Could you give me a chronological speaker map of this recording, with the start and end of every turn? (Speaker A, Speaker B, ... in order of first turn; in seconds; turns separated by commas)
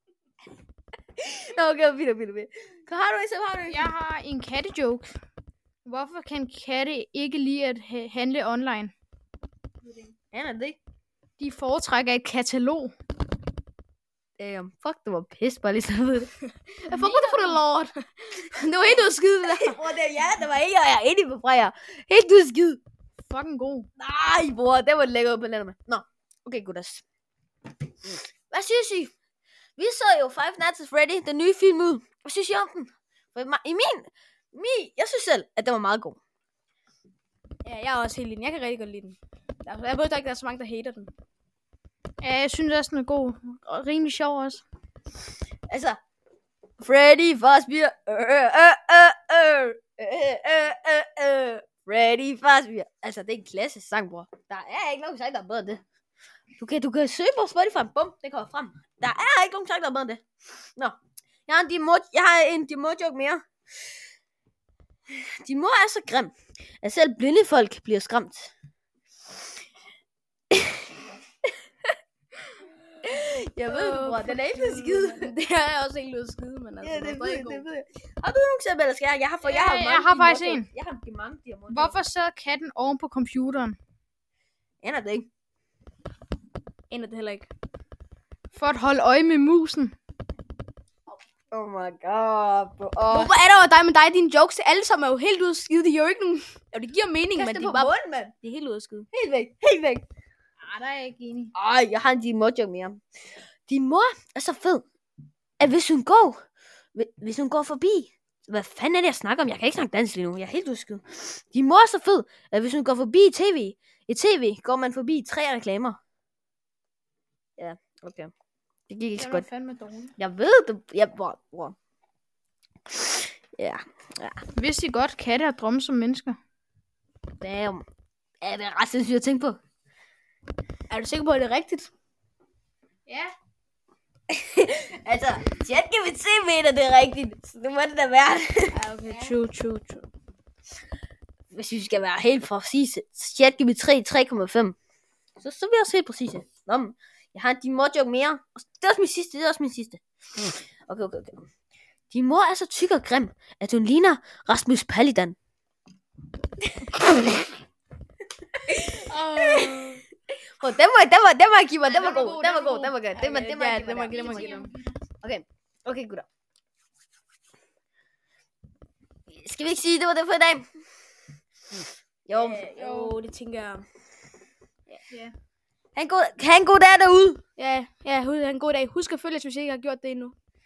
Speaker A: 1.2-3.9, Speaker B: 3.7-5.2, Speaker B: 5.8-8.9, Speaker A: 10.3-10.8, Speaker B: 11.4-12.9, Speaker A: 14.4-16.3, Speaker C: 16.8-19.8, Speaker B: 16.9-17.6, Speaker A: 19.4-22.8, Speaker B: 23.3-23.9, Speaker A: 24.0-27.0, Speaker A: 28.5-29.1, Speaker A: 29.8-36.2, Speaker C: 37.6-41.1, Speaker B: 42.2-44.6, Speaker A: 45.7-46.0, Speaker A: 46.8-55.8, Speaker A: 56.6-60.2, Speaker A: 60.8-63.4, Speaker A: 65.1-68.5, Speaker A: 70.5-70.8, Speaker A: 73.0-75.3, Speaker C: 73.7-77.7, Speaker A: 76.8-82.0, Speaker B: 79.4-80.7, Speaker B: 81.7-83.8, Speaker A: 84.8-85.3, Speaker C: 86.9-87.5, Speaker B: 88.5-90.0, Speaker A: 91.5-93.3, Speaker C: 93.1-97.9, Speaker A: 97.4-98.3, Speaker C: 98.4-99.1, Speaker A: 99.1-100.1, Speaker B: 100.7-101.5, Speaker A: 101.5-103.0, Speaker A: 103.7-104.8, Speaker A: 105.6-106.4, Speaker A: 107.0-116.0, Speaker A: 117.6-118.3, Speaker A: 118.9-119.5, Speaker B: 119.2-120.1, Speaker A: 120.2-121.8, Speaker A: 123.0-124.4, Speaker B: 124.6-126.4, Speaker A: 127.4-127.8, Speaker A: 128.4-129.6, Speaker C: 130.9-131.9, Speaker B: 133.1-133.3, Speaker A: 134.3-138.8, Speaker C: 138.7-140.1, Speaker B: 139.1-139.4, Speaker A: 141.5-144.8, Speaker A: 145.4-151.5, Speaker A: 152.1-155.4, Speaker A: 158.7-159.9, Speaker C: 159.2-160.0, Speaker A: 160.6-164.6, Speaker B: 161.8-163.1, Speaker C: 163.2-164.7, Speaker B: 164.1-164.8, Speaker A: 165.2-166.3, Speaker A: 169.3-170.7, Speaker A: 172.3-172.7, Speaker C: 172.3-173.8, Speaker B: 172.8-173.2, Speaker A: 175.9-177.4, Speaker C: 177.6-180.3